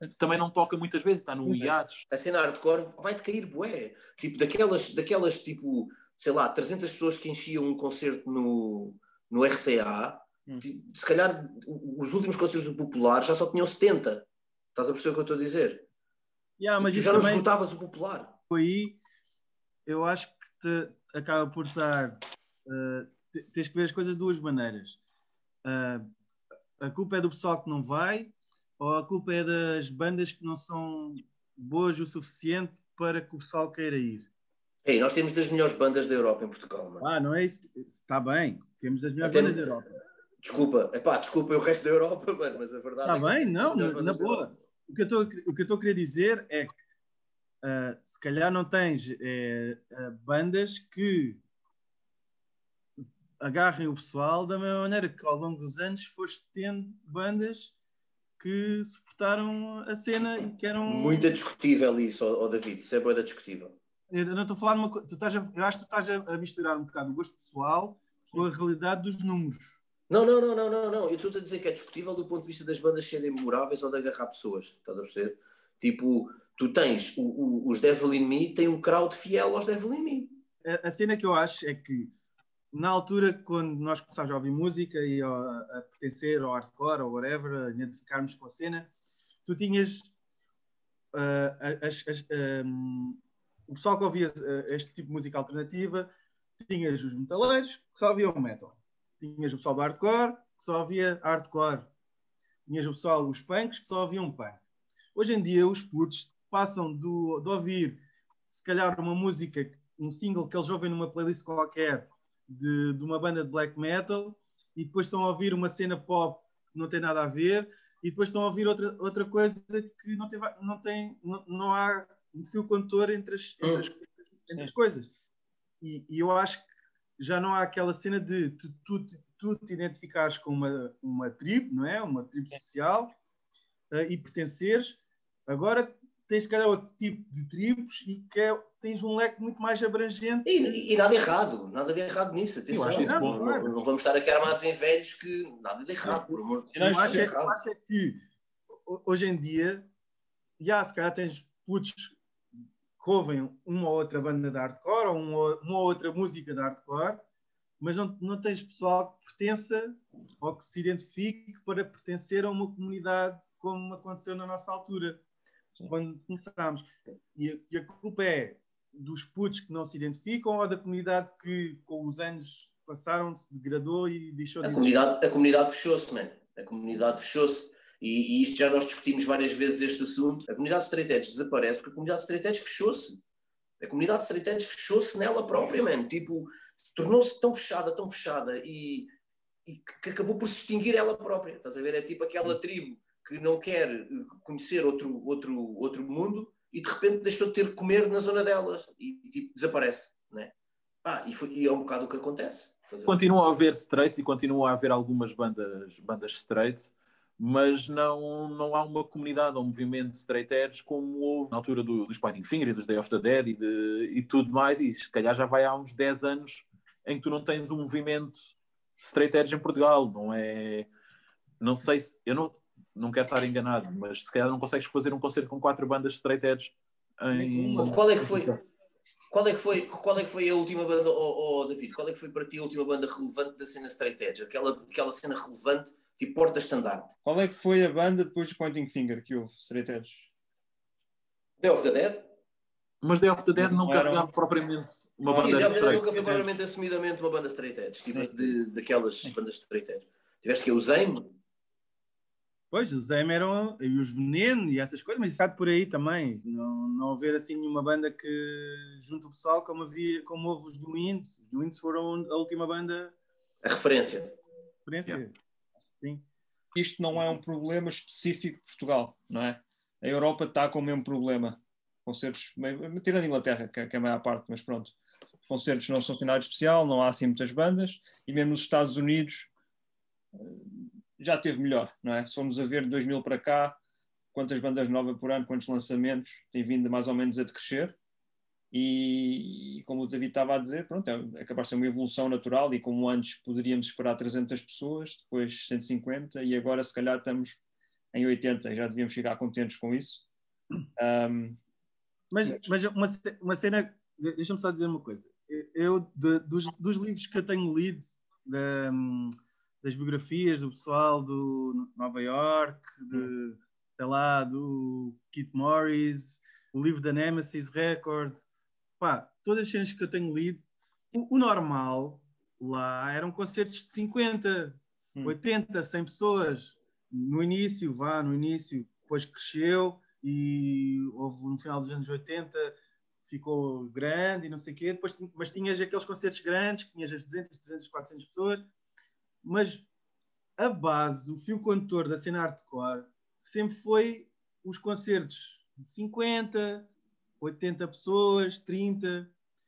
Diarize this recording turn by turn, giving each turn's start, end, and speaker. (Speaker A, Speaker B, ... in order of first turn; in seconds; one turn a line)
Speaker A: 0.2-2.0
Speaker B: 1.4-1.8
Speaker C: 2.1-15.8
Speaker D: 16.6-17.5
Speaker C: 16.8-18.4
Speaker D: 18.5-19.0
Speaker D: 19.9-25.0
Speaker D: 25.6-26.1
Speaker D: 26.8-34.3
Speaker C: 34.9-37.1
Speaker D: 37.0-40.0
Speaker C: 39.2-39.7
Speaker C: 40.4-44.5
Speaker D: 43.0-46.8
Speaker D: 47.6-51.4
Speaker D: 53.4-57.7
Speaker D: 58.4-61.3
Speaker C: 60.9-63.8
Speaker D: 64.1-69.8
Speaker C: 70.1-80.4
Speaker D: 80.6-82.1
Speaker D: 82.7-88.9
Speaker D: 89.5-90.1
Speaker D: 91.1-101.9
Speaker D: 102.7-104.6
Speaker D: 105.2-125.1
Speaker C: 123.6-123.9
Speaker D: 125.8-126.7
Speaker D: 127.2-133.2
Speaker D: 133.9-140.8
Speaker C: 140.4-147.6
Speaker A: 142.7-143.8
Speaker D: 142.8-143.7
Speaker B: 146.7-147.3
Speaker D: 146.8-148.2
Speaker D: 148.9-149.9
Speaker D: 150.6-152.2
Speaker D: 153.0-157.2
Speaker D: 157.8-165.2
Speaker D: 165.9-175.0
Speaker C: 174.6-183.2
Speaker C: 183.8-189.1
Speaker C: 189.7-200.5
Speaker C: 201.0-203.2
Speaker A: 203.1-220.9
Speaker A: 221.6-228.6
Speaker D: 227.3-228.0
Speaker C: 227.8-228.5
Speaker C: 229.3-237.1
Speaker B: 237.2-240.3
Speaker C: 241.6-242.3
Speaker A: 243.0-246.5
Speaker B: 243.6-244.3
Speaker C: 245.3-251.4
Speaker B: 248.1-248.6
Speaker D: 252.7-263.1
Speaker C: 263.6-264.4
Speaker D: 264.9-265.3
Speaker D: 266.0-266.2
Speaker B: 266.8-279.5
Speaker B: 280.3-283.8
Speaker B: 284.3-288.0
Speaker B: 288.7-297.6
Speaker B: 298.1-300.3
Speaker B: 301.0-301.6
Speaker D: 302.3-318.5
Speaker D: 319.0-338.7
Speaker D: 339.4-339.9
Speaker D: 340.6-346.9
Speaker D: 347.4-349.3